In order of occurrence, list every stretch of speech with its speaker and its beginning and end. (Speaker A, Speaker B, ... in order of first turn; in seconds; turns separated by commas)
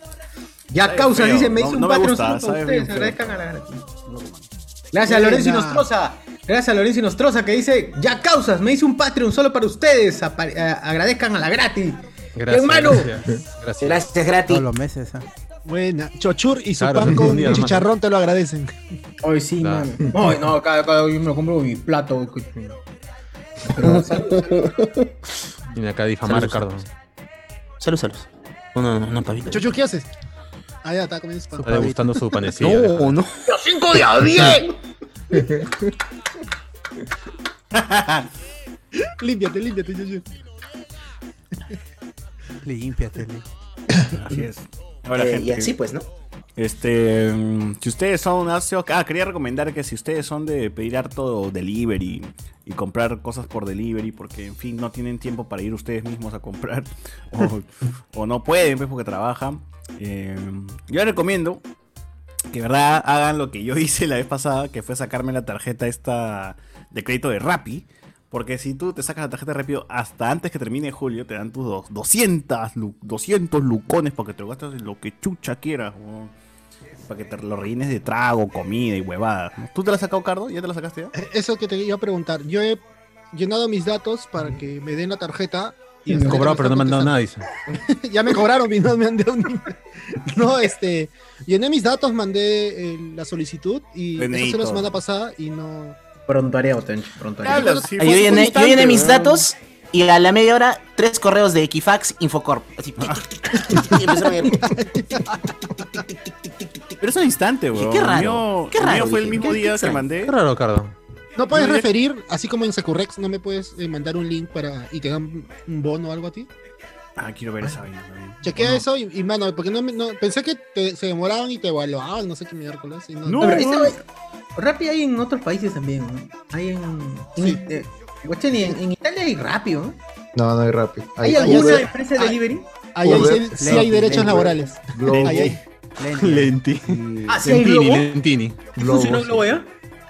Speaker A: 0.7-3.8, Speaker B: 0.8-4.5, Speaker A: 4.9-13.1, Speaker C: 5.0-5.9, Speaker D: 12.3-14.0, Speaker E: 13.8-14.6, Speaker F: 14.5-15.3, Speaker C: 15.7-18.8, Speaker D: 16.8-17.9, Speaker A: 19.2-22.8, Speaker D: 19.6-19.9, Speaker A: 23.7-24.7, Speaker D: 25.7-26.9, Speaker E: 26.2-26.6, Speaker E: 27.8-29.7, Speaker C: 29.5-30.1, Speaker C: 30.8-31.7, Speaker F: 31.6-32.1, Speaker D: 31.6-33.2, Speaker E: 32.6-33.5, Speaker A: 33.5-34.7, Speaker B: 37.7-38.2, Speaker C: 39.2-40.2, Speaker F: 42.6-43.5, Speaker B: 44.1-45.7, Speaker E: 45.1-46.1, Speaker B: 46.6-61.6, Speaker B: 62.5-76.3, Speaker B: 77.1-81.1, Speaker C: 81.1-82.8, Speaker C: 83.3-87.2, Speaker D: 86.2-87.5, Speaker C: 87.7-96.0, Speaker B: 94.2-95.0, Speaker A: 96.3-97.7, Speaker C: 97.4-99.1, Speaker B: 97.4-99.5, Speaker E: 98.0-104.7, Speaker C: 103.7-105.5, Speaker E: 105.8-107.0, Speaker B: 107.0-110.3, Speaker E: 107.7-110.1, Speaker D: 110.2-110.9, Speaker C: 111.4-116.5, Speaker B: 111.5-111.9, Speaker B: 117.2-118.8, Speaker C: 118.4-123.8, Speaker B: 123.2-124.0, Speaker A: 123.4-124.0, Speaker A: 124.6-130.0, Speaker C: 127.4-127.8, Speaker G: 130.3-131.9, Speaker A: 131.2-132.7, Speaker C: 131.3-132.3, Speaker C: 132.9-135.6, Speaker F: 133.0-134.6, Speaker G: 133.0-135.6, Speaker B: 135.1-135.5, Speaker F: 136.0-136.6, Speaker D: 136.2-138.7, Speaker G: 136.8-137.4, Speaker A: 137.3-138.1, Speaker A: 138.8-139.7, Speaker G: 138.8-139.6